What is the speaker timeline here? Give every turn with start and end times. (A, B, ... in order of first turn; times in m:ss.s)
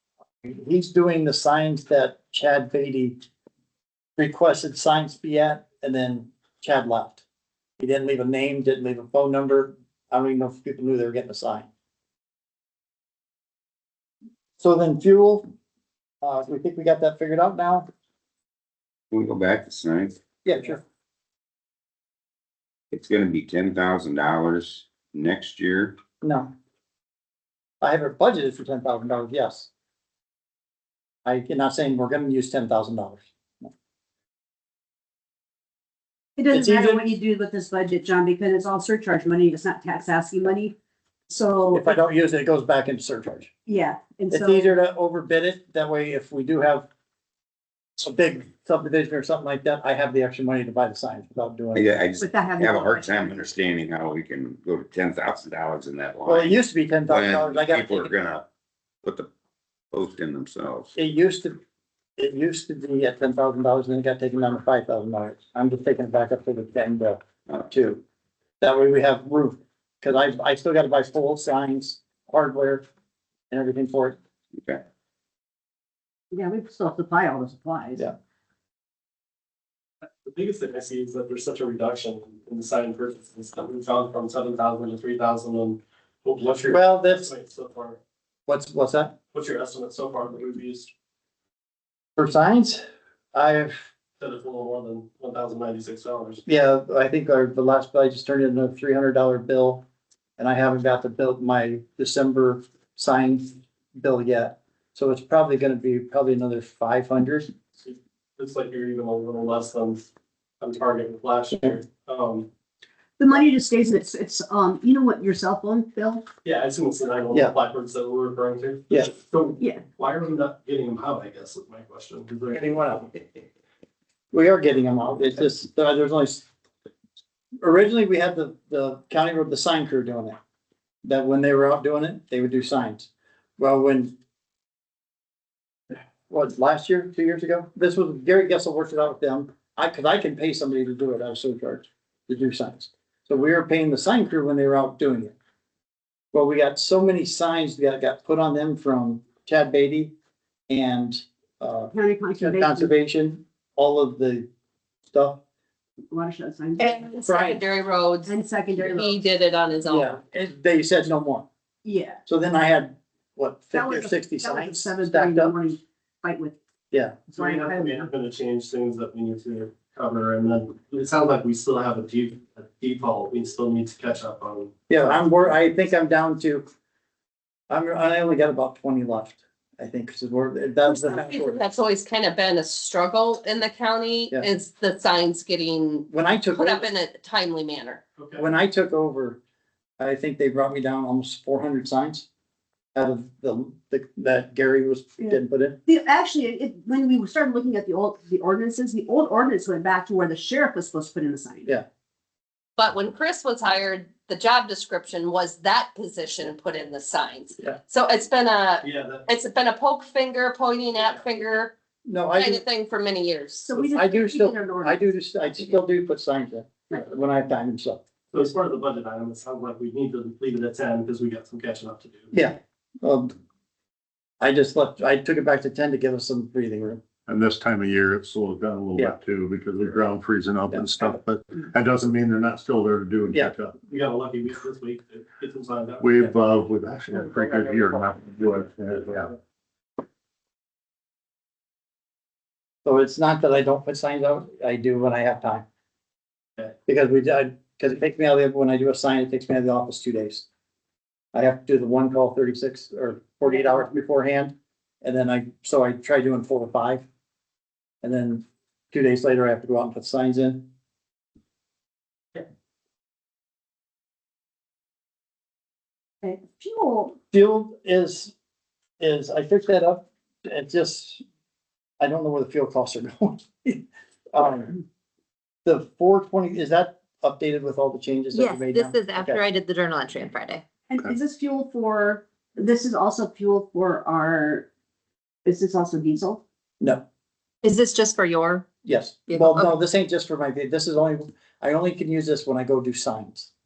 0:00.4-0:03.2 A
0:04.2-0:07.2 A
0:07.8-0:11.7 A
0:14.6-0:15.4 A
0:16.2-0:17.8 A
0:19.1-0:20.2 B
0:20.4-0:20.8 A
0:22.9-0:26.0 B
0:26.2-0:26.5 A
0:27.8-0:29.7 A
0:31.2-0:33.7 A
0:36.4-0:40.7 C
0:36.5-0:37.1 A
0:41.3-0:42.0 C
0:41.7-0:43.5 A
0:43.7-0:44.7 C
0:44.3-0:46.9 A
0:48.0-0:52.0 A
0:51.7-0:56.6 B
0:52.2-0:53.4 C
0:56.2-0:58.1 A
0:57.1-0:58.5 B
0:59.0-0:59.3 B
0:59.9-1:00.9 B
1:01.0-1:01.6 A
1:02.2-1:08.0 A
1:08.6-1:12.8 A
1:13.5-1:14.2 A
1:14.6-1:14.8 B
1:16.3-1:18.0 C
1:20.2-1:28.0 D
1:26.7-1:27.3 A
1:28.5-1:29.1 A
1:29.3-1:30.9 D
1:32.2-1:33.9 A
1:34.2-1:36.4 D
1:36.4-1:39.8 A
1:40.4-1:47.5 A
1:47.8-1:50.1 D
1:50.6-1:52.5 D
1:53.2-1:56.2 C
1:56.4-2:03.2 D
2:02.5-2:03.0 A
2:04.3-2:06.4 A
2:07.6-2:10.4 A
2:11.0-2:14.1 A
2:16.3-2:25.3 A
2:26.3-2:30.1 A
2:30.7-2:34.5 A
2:31.9-2:32.9 C
2:35.1-2:35.4 A
2:36.1-2:36.9 C
2:36.8-2:40.2 E
2:37.2-2:37.6 A
2:38.2-2:39.1 C
2:39.8-2:41.4 A
2:41.8-2:42.2 C
2:42.2-2:45.5 A
2:43.7-2:46.6 C
2:46.9-2:47.2 A
2:47.3-2:55.2 D
2:47.3-2:48.1 C
2:54.9-2:56.7 A
2:57.7-3:01.6 A
3:00.9-3:08.0 E
3:06.1-3:06.8 A
3:08.2-3:08.5 D
3:08.4-3:09.4 A
3:10.0-3:12.2 A
3:12.9-3:15.8 A
3:15.2-3:21.7 C
3:22.8-3:31.7 E
3:28.8-3:29.3 D
3:32.0-3:32.6 A
3:32.4-3:33.7 E
3:33.6-3:35.1 C
3:33.7-3:38.0 A
3:38.3-3:42.4 D
3:42.3-3:43.4 A
3:44.4-3:47.0 A
3:47.3-3:53.7 F
3:50.7-3:51.1 A
3:53.9-3:56.3 D
3:56.0-3:59.3 F
4:02.8-4:05.6 A
4:06.8-4:10.4 A
4:11.3-4:17.0 A
4:18.0-4:20.7 A
4:26.2-4:27.1 C
4:27.3-4:28.3 A
4:29.0-4:31.2 A
4:32.0-4:34.8 A
4:35.6-4:39.4 A
4:38.3-4:40.6 G
4:40.9-4:44.7 C
4:45.4-4:46.4 C
4:47.6-4:48.6 G
4:48.8-4:53.5 A
4:49.3-4:49.7 G